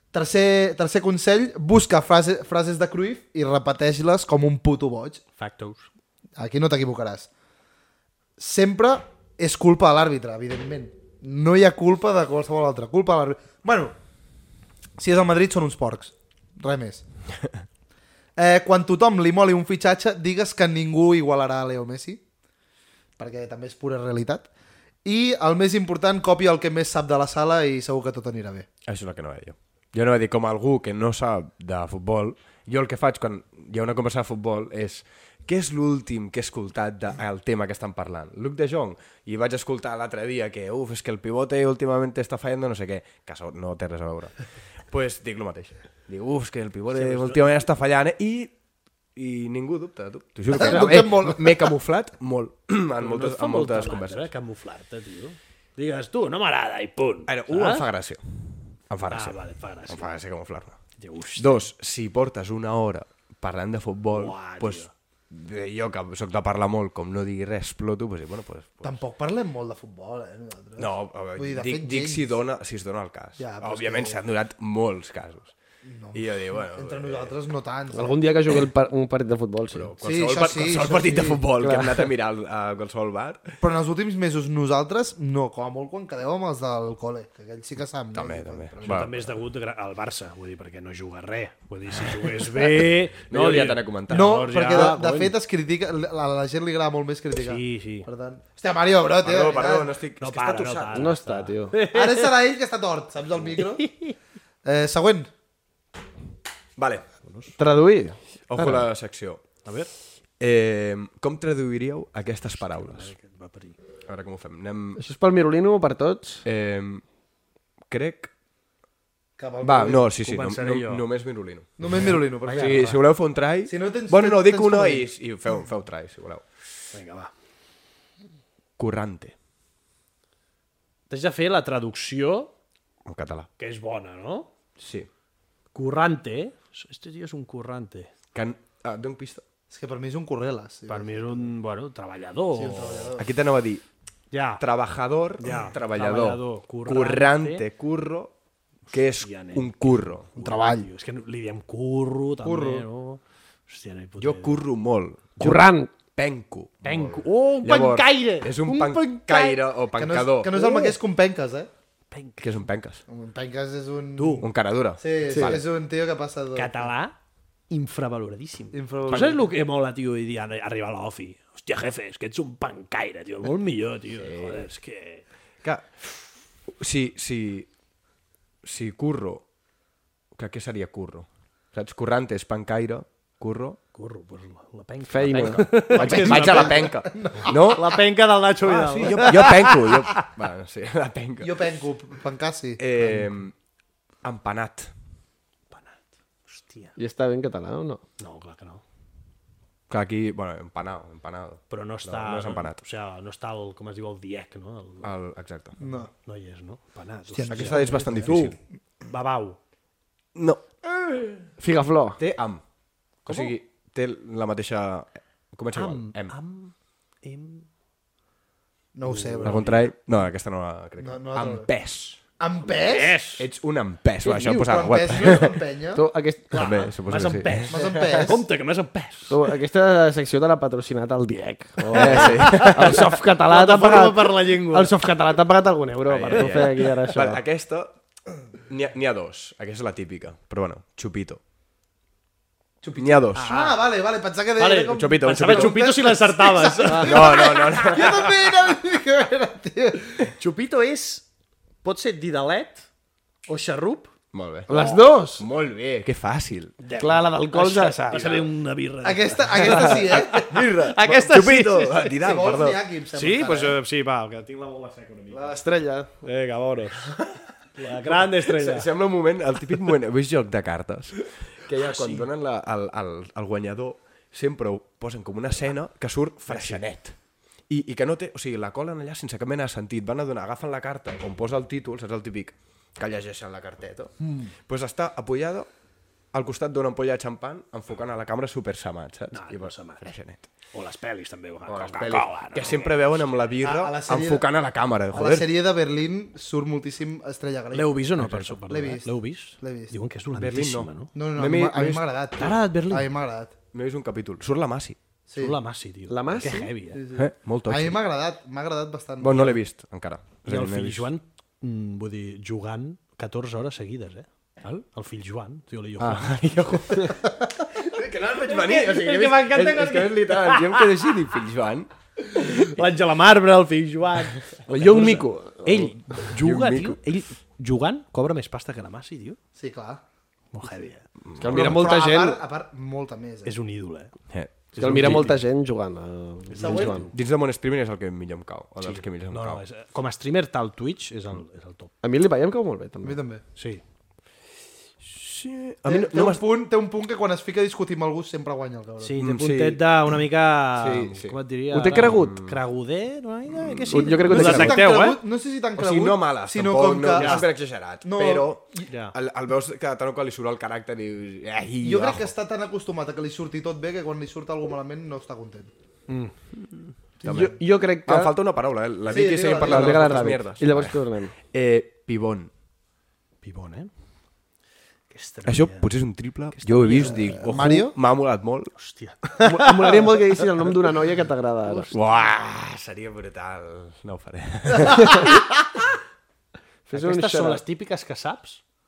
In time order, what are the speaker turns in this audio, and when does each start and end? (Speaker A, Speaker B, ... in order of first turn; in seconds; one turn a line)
Speaker A: 0.1-5.2
Speaker B: 5.4-5.9
Speaker A: 6.4-7.3
Speaker A: 8.4-13.9
Speaker A: 15.0-17.0
Speaker A: 18.4-22.2
Speaker A: 23.2-24.5
Speaker A: 25.0-28.7
Speaker C: 28.9-48.5
Speaker B: 46.9-47.6
Speaker C: 49.1-54.3
Speaker A: 50.5-51.7
Speaker B: 53.0-57.9
Speaker C: 57.3-58.2
Speaker C: 58.7-60.8
Speaker B: 59.1-60.1
Speaker B: 61.0-61.7
Speaker C: 61.4-69.0
Speaker B: 64.1-64.9
Speaker A: 68.8-72.3
Speaker C: 70.8-75.5
Speaker A: 73.4-74.2
Speaker A: 75.8-78.3
Speaker C: 76.1-77.3
Speaker D: 77.9-79.9
Speaker C: 79.7-83.6
Speaker A: 80.0-81.4
Speaker D: 81.5-82.1
Speaker A: 83.6-89.2
Speaker C: 88.1-89.2
Speaker B: 88.8-95.3
Speaker C: 93.3-94.9
Speaker A: 94.1-99.9
Speaker B: 97.3-98.1
Speaker C: 99.2-101.2
Speaker B: 100.2-102.3
Speaker D: 100.9-101.7
Speaker A: 101.9-103.9
Speaker B: 103.5-104.1
Speaker A: 104.6-105.3
Speaker C: 106.8-107.0
Speaker B: 107.2-107.6
Speaker D: 107.6-108.8
Speaker C: 108.5-109.4
Speaker B: 109.6-109.9
Speaker C: 110.4-113.1
Speaker B: 112.6-113.8
Speaker C: 114.1-115.0
Speaker D: 115.0-116.4
Speaker C: 116.4-117.0
Speaker C: 117.9-118.3
Speaker A: 119.4-120.1
Speaker C: 119.6-126.6
Speaker B: 120.2-121.0
Speaker A: 121.8-123.0
Speaker B: 122.4-123.0
Speaker A: 123.7-125.1
Speaker B: 126.9-127.3
Speaker C: 128.8-129.3
Speaker B: 131.1-132.5
Speaker C: 133.0-133.5
Speaker B: 133.6-134.5
Speaker C: 134.8-135.1
Speaker B: 135.7-138.1
Speaker C: 138.3-139.4
Speaker A: 139.7-141.5
Speaker B: 140.9-143.1
Speaker A: 142.5-143.3
Speaker C: 143.2-143.8
Speaker B: 144.3-144.6
Speaker C: 144.6-148.3
Speaker B: 145.4-147.6
Speaker C: 148.9-150.3
Speaker B: 149.2-154.6
Speaker A: 150.4-150.8
Speaker A: 152.4-152.8
Speaker C: 154.2-160.7
Speaker D: 155.4-155.9
Speaker B: 156.8-159.6
Speaker A: 159.9-161.7
Speaker B: 160.6-160.9
Speaker B: 162.1-162.6
Speaker C: 162.4-163.0
Speaker A: 163.1-164.5
Speaker B: 164.2-164.4
Speaker C: 164.4-165.6
Speaker A: 165.0-166.9
Speaker D: 165.3-165.6
Speaker B: 166.5-167.2
Speaker B: 167.7-175.2
Speaker A: 168.7-169.4
Speaker C: 174.2-174.7
Speaker C: 175.6-176.2
Speaker C: 176.8-177.7
Speaker C: 178.6-179.4
Speaker C: 180.3-183.8
Speaker B: 183.9-186.9
Speaker D: 185.0-185.7
Speaker C: 185.3-188.0
Speaker A: 185.9-187.6
Speaker B: 187.5-190.2
Speaker C: 188.6-191.7
Speaker A: 191.4-192.8
Speaker C: 192.8-193.5
Speaker C: 194.2-194.9
Speaker B: 195.7-196.9
Speaker D: 196.9-198.0
Speaker B: 198.2-198.8
Speaker C: 199.9-202.8
Speaker B: 201.7-205.1
Speaker C: 205.0-205.8
Speaker A: 205.8-206.1
Speaker B: 206.2-209.6
Speaker A: 207.3-208.5
Speaker C: 207.5-208.6
Speaker C: 210.3-211.5
Speaker D: 211.6-212.2
Speaker C: 212.2-212.6
Speaker C: 213.2-216.3
Speaker B: 213.2-213.6
Speaker B: 215.7-217.7
Speaker A: 218.9-219.7
Speaker B: 219.0-219.9
Speaker C: 219.4-222.2
Speaker A: 221.0-221.7
Speaker A: 222.4-223.2
Speaker B: 222.6-223.5
Speaker C: 223.4-225.6
Speaker A: 224.3-226.1
Speaker D: 225.9-226.7
Speaker B: 226.5-229.4
Speaker C: 226.5-228.3
Speaker A: 227.7-228.4
Speaker D: 229.3-237.4
Speaker C: 231.9-233.1
Speaker B: 231.9-235.0
Speaker C: 236.1-237.9
Speaker B: 236.2-236.7
Speaker C: 238.7-241.4
Speaker A: 242.8-250.3
Speaker C: 243.0-243.5
Speaker B: 243.3-243.8
Speaker B: 244.6-247.5
Speaker C: 244.9-246.0
Speaker D: 246.8-247.1
Speaker C: 246.9-248.6
Speaker B: 250.4-251.2
Speaker B: 251.8-252.8
Speaker B: 253.5-254.1
Speaker C: 254.3-256.7
Speaker D: 254.7-255.5
Speaker B: 254.7-255.0
Speaker B: 256.8-262.1
Speaker D: 257.0-258.5
Speaker A: 259.0-260.5
Speaker C: 260.4-262.8
Speaker A: 262.2-263.8
Speaker B: 263.1-265.6
Speaker D: 265.3-266.1
Speaker B: 266.2-267.1
Speaker B: 267.8-268.9
Speaker C: 268.0-277.1
Speaker B: 271.8-272.3
Speaker B: 276.5-276.8
Speaker C: 277.7-284.1
Speaker A: 284.2-284.5
Speaker C: 284.6-285.7
Speaker C: 286.3-290.4
Speaker B: 289.3-290.1
Speaker B: 290.7-293.1
Speaker C: 291.7-295.5
Speaker A: 293.6-294.5
Speaker A: 295.1-298.1
Speaker B: 297.7-301.1
Speaker C: 298.2-298.6
Speaker A: 298.7-299.9
Speaker C: 300.4-302.1
Speaker A: 301.1-303.5
Speaker B: 302.4-303.1
Speaker C: 303.7-305.0
Speaker A: 305.3-305.6
Speaker B: 305.4-307.0
Speaker D: 306.1-306.7
Speaker A: 306.9-309.6
Speaker C: 307.1-308.0
Speaker C: 309.2-311.1
Speaker B: 310.4-317.1
Speaker C: 316.0-317.2
Speaker C: 317.8-321.9
Speaker B: 318.4-320.9
Speaker B: 322.2-329.4
Speaker D: 324.7-325.9
Speaker C: 326.3-327.0
Speaker A: 329.6-330.0
Speaker B: 330.5-331.0
Speaker C: 331.2-331.9
Speaker D: 331.4-332.4
Speaker A: 331.5-333.5
Speaker B: 333.4-334.1
Speaker C: 334.3-335.4
Speaker B: 334.7-335.4
Speaker D: 334.8-337.1
Speaker B: 336.5-337.1
Speaker A: 336.6-337.0
Speaker C: 337.1-339.6
Speaker B: 338.8-341.9
Speaker D: 342.0-343.2
Speaker A: 343.0-343.4
Speaker B: 343.6-343.8
Speaker C: 345.0-346.4
Speaker A: 345.9-349.2
Speaker B: 349.0-355.2
Speaker C: 349.2-350.1
Speaker C: 350.7-352.6
Speaker D: 351.7-352.4
Speaker C: 353.6-354.7
Speaker D: 353.9-354.8
Speaker A: 354.3-358.9
Speaker C: 355.8-362.3
Speaker B: 357.1-357.4
Speaker B: 358.9-359.1
Speaker A: 361.8-365.7
Speaker B: 366.1-366.3
Speaker C: 367.2-372.5
Speaker D: 367.2-368.4
Speaker A: 369.1-370.4
Speaker D: 369.1-371.3
Speaker B: 373.4-373.9
Speaker B: 375.1-375.9
Speaker C: 375.4-378.7
Speaker B: 376.5-377.3
Speaker A: 376.9-377.9
Speaker B: 378.7-380.2
Speaker D: 379.4-381.9
Speaker B: 381.7-382.2
Speaker C: 381.9-385.3
Speaker A: 384.8-385.4
Speaker D: 386.9-387.6
Speaker B: 386.9-388.6